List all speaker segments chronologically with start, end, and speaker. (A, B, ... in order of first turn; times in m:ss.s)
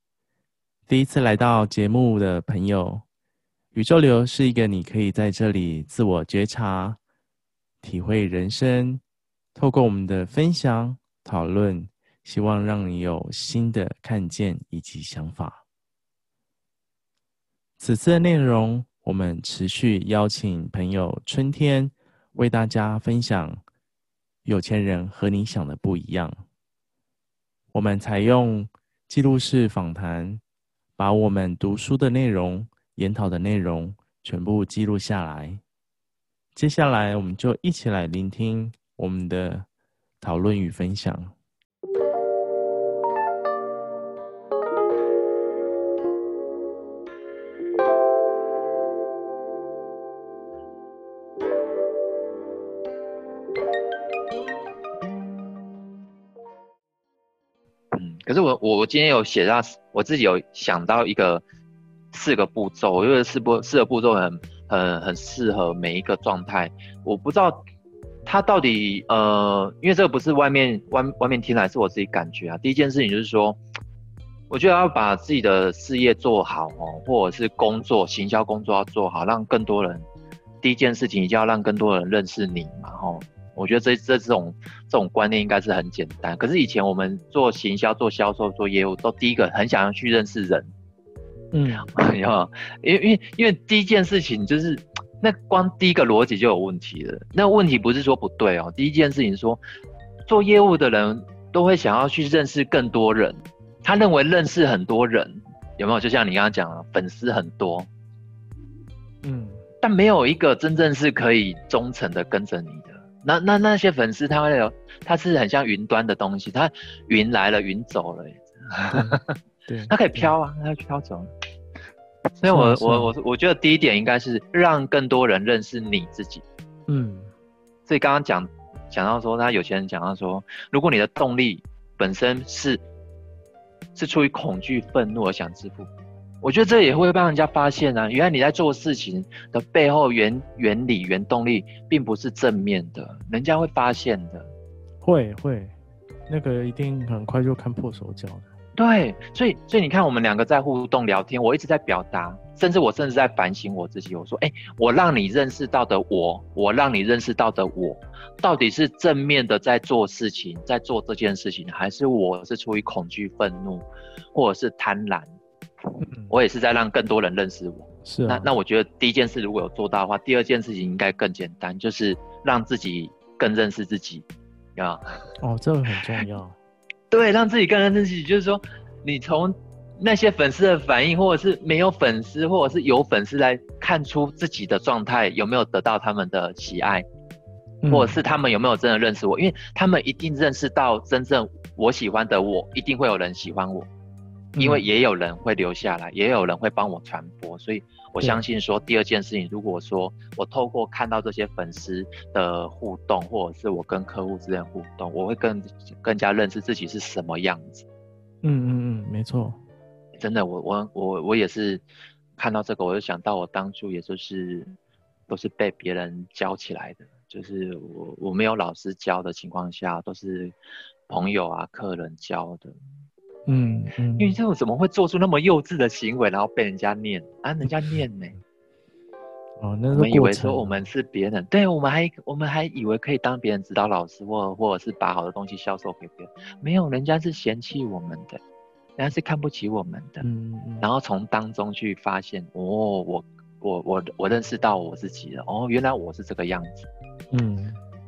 0:00.9-0:03.0 A
0:03.7-0:07.0 A
0:07.8-0:09.0 A
0:09.6-0:15.6 A
0:17.8-0:23.6 A
0:24.4-0:26.4 A
0:27.7-0:30.4 A
0:31.0-0:35.6 A
0:36.5-0:39.7 A
0:40.2-0:41.3 A
0:57.9-1:01.4 B
1:02.1-1:07.7 B
1:08.3-1:13.6 B
1:14.5-1:20.0 B
1:20.6-1:30.7 B
1:31.5-1:31.9 A
1:31.8-1:39.6 B
1:40.3-1:47.9 B
1:49.2-1:49.6 A
1:49.8-1:59.3 B
1:59.7-2:00.3 A
1:59.9-2:01.3 B
2:02.4-2:06.4 B
2:02.5-2:03.1 A
2:06.9-2:07.3 A
2:07.9-2:12.8 B
2:14.0-2:15.9 B
2:16.4-2:24.5 B
2:25.0-2:25.7 A
2:26.3-2:28.5 A
2:28.8-2:45.3 B
2:46.0-2:46.3 A
2:46.3-2:54.3 B
2:48.0-2:48.5 A
2:54.8-2:55.0 B
2:55.4-2:56.6 A
2:57.1-3:07.1 B
3:07.8-3:08.2 A
3:07.9-3:13.9 B
3:14.6-3:14.9 A
3:14.6-3:27.9 B
3:28.4-3:29.6 A
3:30.2-3:31.8 B
3:32.4-3:34.7 B
3:35.3-3:40.6 B
3:41.1-3:42.8 B
3:43.5-3:44.4 A
3:44.2-3:48.4 B
3:49.6-3:50.8 A
3:49.9-3:58.4 B
3:59.0-4:00.2 B
4:00.2-4:00.8 A
4:00.8-4:06.9 B
4:07.3-4:07.8 A